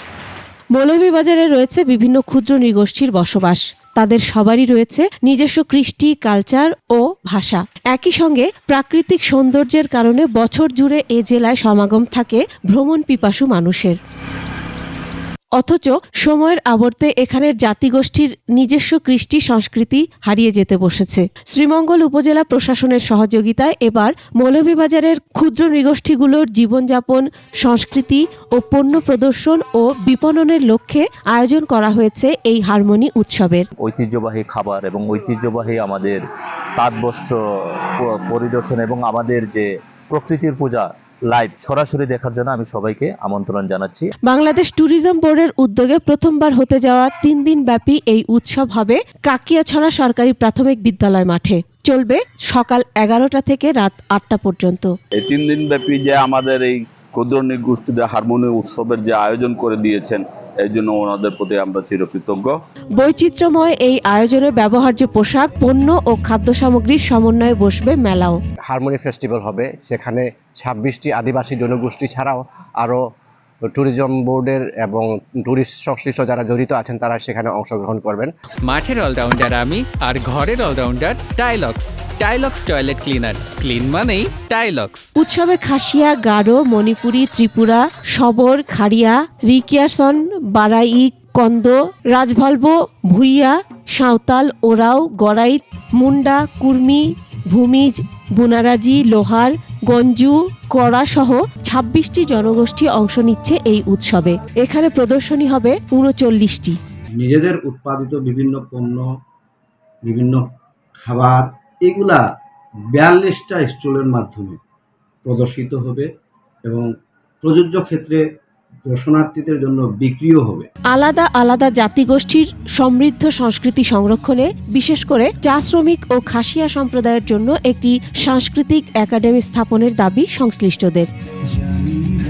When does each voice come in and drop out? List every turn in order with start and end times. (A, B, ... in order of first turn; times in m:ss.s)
0:00.7-0:14.0 A
0:15.6-0:33.7 A
0:33.8-0:36.2 B
0:36.8-0:44.1 B
0:44.2-0:54.9 A
0:55.2-1:02.6 C
1:03.0-1:08.4 A
1:08.7-1:13.0 D
1:13.7-1:18.3 D
1:18.7-1:25.1 E
1:25.2-1:46.8 A
1:47.2-1:49.0 F
1:50.0-1:50.4 F
1:51.0-1:52.3 F
1:52.9-1:54.6 F
1:55.2-1:56.1 F
1:57.4-1:58.2 F
1:58.8-2:00.7 F
2:00.9-2:11.1 A